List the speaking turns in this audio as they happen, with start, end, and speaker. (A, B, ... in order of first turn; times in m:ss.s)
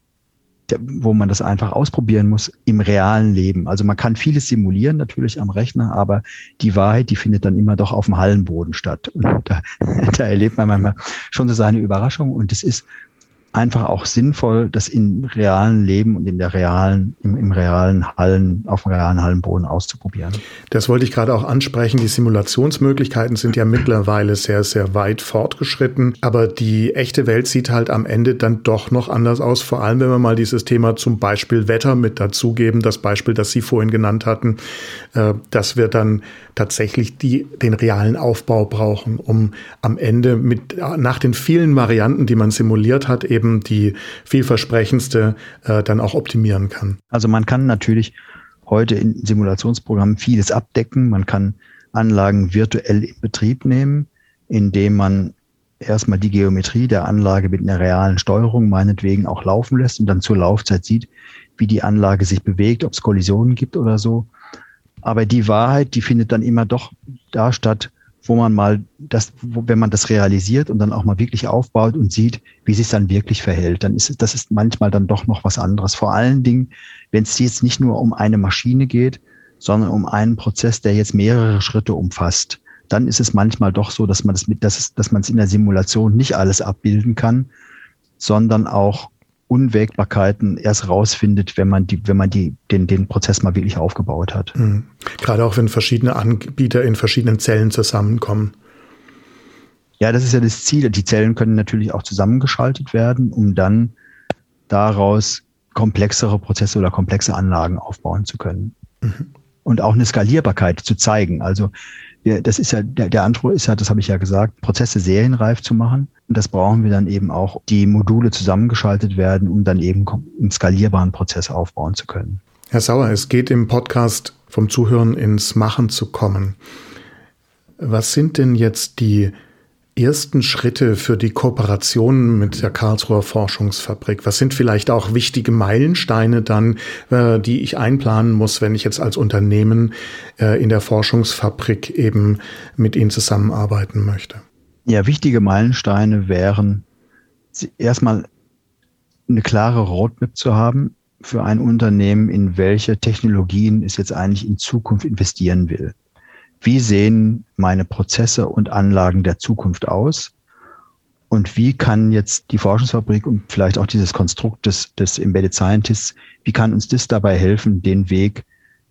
0:00.7-0:12.9 A
0:13.5-0:20.4 A
0:20.7-0:34.6 B
0:35.1-0:47.0 B
0:47.1-0:48.2 A
0:48.7-1:04.3 A
1:05.0-1:27.5 A
1:28.2-1:34.5 A
1:34.6-1:38.6 B
1:40.0-1:43.9 A
1:44.7-1:48.8 A
1:49.6-1:51.7 A
1:52.2-2:02.4 A
2:02.7-2:06.6 B
2:07.8-2:09.3 B
2:10.0-2:24.4 B
2:24.9-2:26.9 A
2:27.5-2:28.3 A
2:29.3-2:36.0 A
2:36.6-2:40.3 A
2:41.3-2:48.4 A